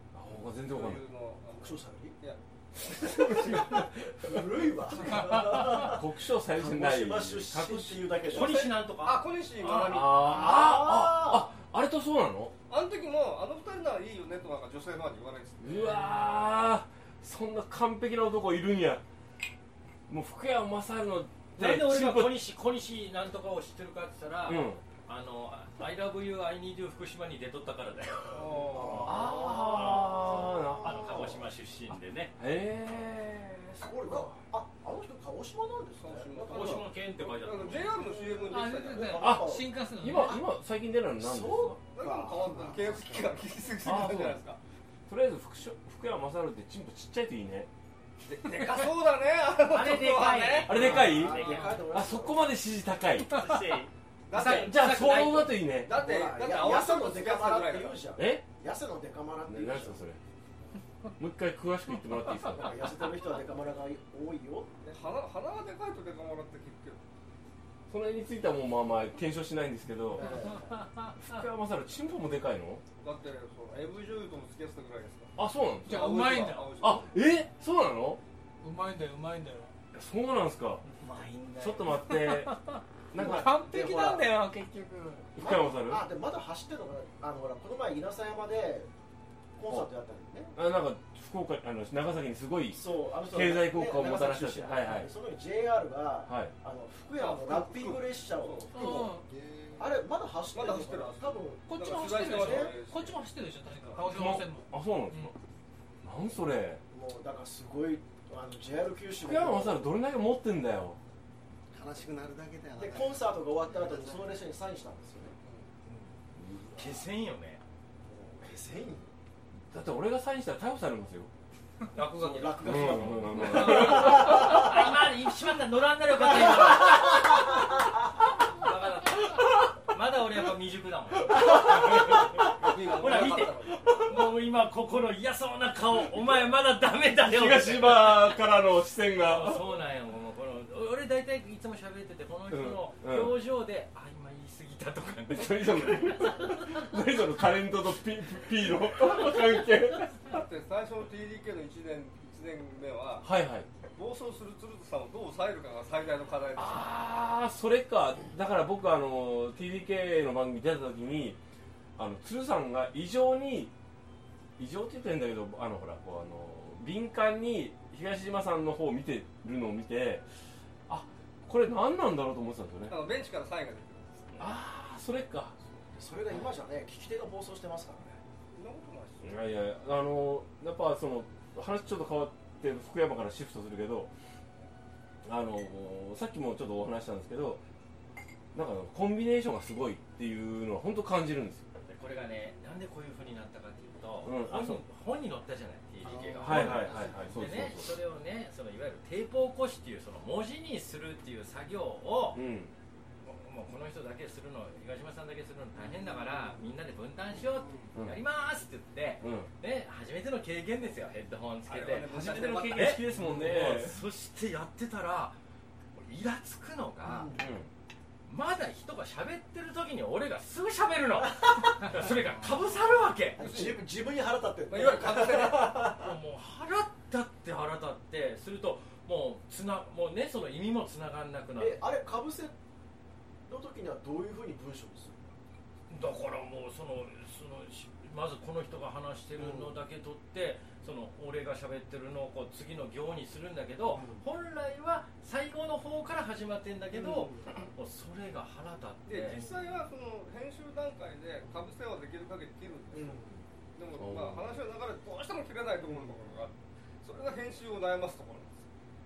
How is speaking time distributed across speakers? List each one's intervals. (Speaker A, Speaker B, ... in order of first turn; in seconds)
Speaker A: 0.1-1.0, 2.9-4.4, 5.3-8.2, 9.7-12.5, 15.6-19.0, 20.1-22.4, 24.4-24.8, 29.0-31.2, 32.4-34.4, 39.2-41.8, 43.8-44.4, 45.1-47.7, 50.6-53.5, 54.4-55.9, 58.2-58.4, 59.5-60.2, 61.2-62.9, 67.9-70.4, 71.2-72.8, 75.4-76.2, 76.8-78.2, 79.9-80.8, 81.6-82.5, 83.1-83.5, 85.4-86.0, 90.5-95.1, 96.2-96.5, 104.0-105.3, 106.0-106.8, 109.2-111.0, 119.7-121.3, 122.6-124.5, 137.2-139.7, 142.5-143.4, 145.3-150.4, 153.2-153.7, 156.6-161.4, 162.0-163.7, 164.6-170.2, 170.9-173.0, 174.4-175.5, 179.2-184.1, 185.2-187.6, 188.5-191.7, 194.2-194.8, 196.4-198.0, 202.3-202.7, 209.2-209.5, 212.0-214.0, 217.4-217.7, 253.9-254.5
Speaker B: 0.7-3.9, 4.9-5.4, 8.4-10.6, 12.7-16.4, 28.3-29.4, 36.0-39.1, 41.9-44.6, 48.2-51.1, 54.3-55.2, 55.8-58.1, 64.8-67.0, 73.0-75.3, 75.8-77.1, 97.1-99.0, 100.5-103.2, 131.6-134.1, 150.2-153.3, 153.9-156.9, 172.9-174.5, 178.5-179.3, 211.7-213.0, 223.4-223.8, 224.7-225.8, 249.1-253.2, 253.7-258.6
Speaker C: 1.6-2.2, 4.2-8.7, 10.2-11.5, 28.7-31.4, 33.8-36.9, 37.8-40.4, 41.2-43.3, 50.7-52.5, 55.9-60.0, 62.5-64.8, 70.1-70.7, 83.1-84.4, 85.4-88.9, 89.5-90.5, 92.7-99.1, 99.8-102.8, 106.9-109.9, 112.8-115.3, 118.0-119.1, 122.0-124.9, 126.2-127.6, 175.8-178.2, 217.0-217.5, 223.3-226.2, 231.6-232.5, 233.4-235.3, 239.4-239.8, 243.8-244.2, 246.9-247.6, 252.9-253.5, 255.8-256.2
Speaker D: 8.3-10.1, 21.6-29.1, 30.8-32.3, 36.5-38.0, 49.7-51.8, 53.3-55.5, 81.0-81.8, 116.7-117.6, 121.9-127.6, 128.5-138.4, 139.2-146.6, 191.9-202.4, 203.2-215.4, 215.9-217.3, 218.3-223.4, 225.9-231.8, 235.9-249.8
Speaker E: 38.5-40.4, 70.7-71.1, 75.8-76.8, 78.6-79.7, 81.9-85.3, 98.7-99.3, 101.7-105.3
Speaker F: 99.3-99.9, 111.7-114.3, 196.0-197.2, 207.5-207.9